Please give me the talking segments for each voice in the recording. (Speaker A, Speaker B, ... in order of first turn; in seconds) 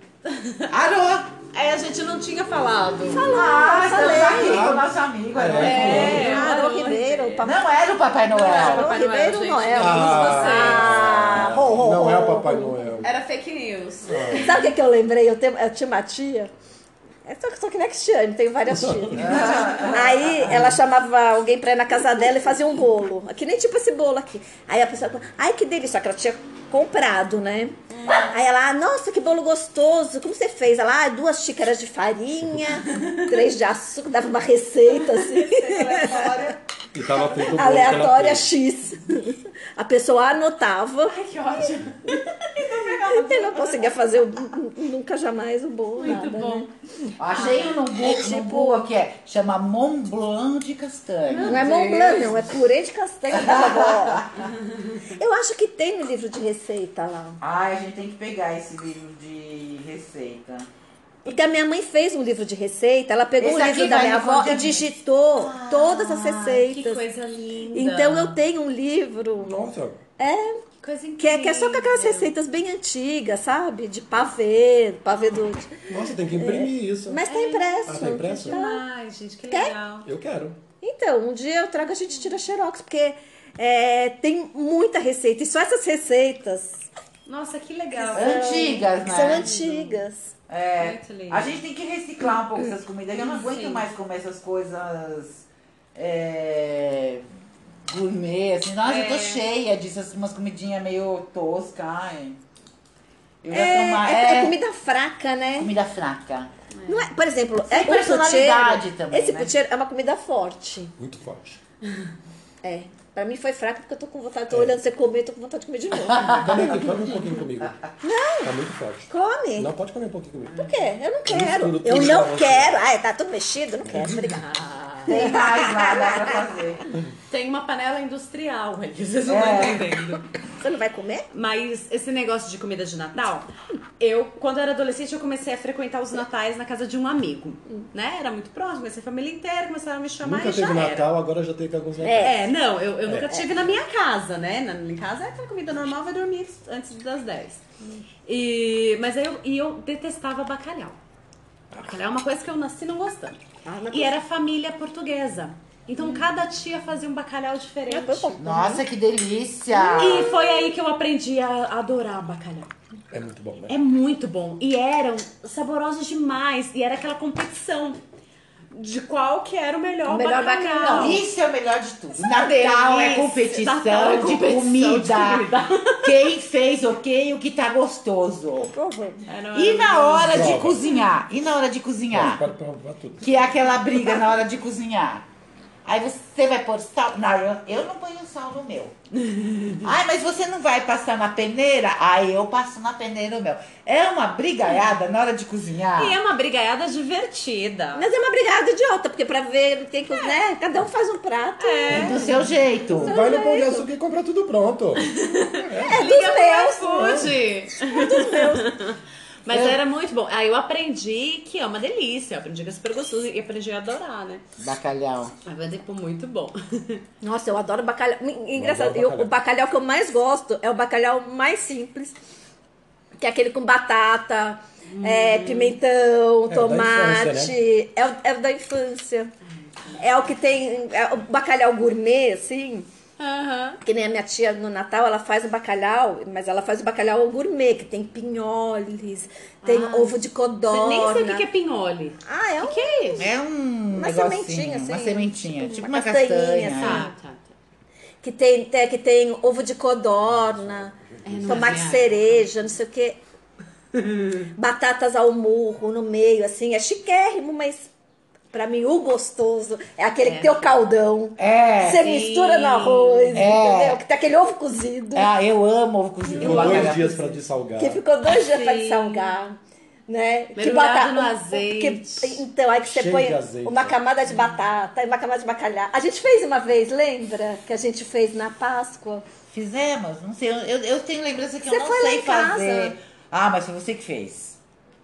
Speaker A: 0.3-0.7, 1.5-3.3, 5.5-7.5, 8.3-10.9, 13.0-14.6, 32.9-33.2, 35.0-36.6, 41.0-43.9, 46.0-46.7, 47.3-47.7, 51.2-52.5, 65.3-68.4, 70.8-72.3, 77.3-80.1, 87.2-90.0, 90.8-91.5, 93.2-93.8, 98.8-99.4, 124.6-124.9, 127.3-130.2, 131.3-133.5, 134.0-141.1, 142.2-147.6, 148.2-151.0, 151.7-153.4, 153.9-158.4, 159.9-162.7, 163.7-168.0, 168.7-171.2, 172.2-176.2, 179.3-180.9, 189.3-189.8, 195.9-198.1, 201.6-202.3, 205.0-214.4, 215.4-217.0, 224.9-225.8, 233.2-233.8, 239.6-243.2, 246.7-247.5, 251.2-252.3, 260.2-260.6, 262.0-263.4, 266.4-266.8, 268.3-269.3, 270.6-272.4
Speaker B: 0.7-1.4, 3.2-6.5, 7.4-8.9, 19.1-20.4, 47.2-51.7, 53.3-54.5, 57.4-60.7, 63.4-64.9, 88.1-89.5, 90.5-97.2, 97.9-102.4, 103.4-104.6, 105.6-106.5, 107.7-109.5, 125.0-126.8, 129.3-130.0, 158.4-160.4, 170.9-178.7, 179.5-182.4, 183.2-185.2, 185.8-188.9, 189.8-196.2, 201.9-203.2, 209.5-209.8, 214.6-215.3, 243.2-247.1, 261.4-262.1, 263.3-264.0, 265.1-267.4, 279.5-284.6
Speaker C: 3.1-4.7, 5.8-7.6, 8.3-12.8, 14.3-16.5, 17.2-36.3, 37.5-41.1, 42.1-46.7, 47.9-48.9, 51.4-54.3, 55.1-57.4, 61.2-67.0, 67.7-70.6, 71.2-75.7, 76.3-78.8, 79.5-79.7, 80.8-86.9, 87.9-90.3, 103.5-105.7, 106.9-110.9, 112.6-116.8, 118.0-118.5, 119.1-119.7, 120.5-126.3, 130.6-131.3, 142.0-142.4, 153.6-154.2, 157.9-158.8, 159.8-160.3, 170.1-171.2, 178.6-179.2, 197.9-202.2, 203.0-203.9, 205.8-208.7, 217.2-222.2, 223.2-229.3, 230.0-232.9, 233.8-241.4, 242.2-243.2, 243.9-247.1, 248.2-253.2, 254.4-257.9, 258.5-265.3, 266.3-266.9, 267.8-269.6, 270.1-279.2, 281.6-282.9
Speaker D: 4.2-6.4, 9.8-13.1, 14.1-14.5, 18.8-19.4, 20.4-20.7, 36.9-38.5, 69.4-70.0, 75.9-77.2, 77.8-78.6, 80.0-80.6, 111.0-111.6, 116.3-117.9, 118.4-120.7, 121.2-122.8, 123.9-124.2, 140.2-142.4, 143.1-143.4, 163.1-163.7, 180.3-180.8, 182.1-183.4, 202.9-206.0, 207.0-207.3, 218.6-219.3, 226.5-227.5, 251.2-251.6, 266.4-268.0, 272.9-274.0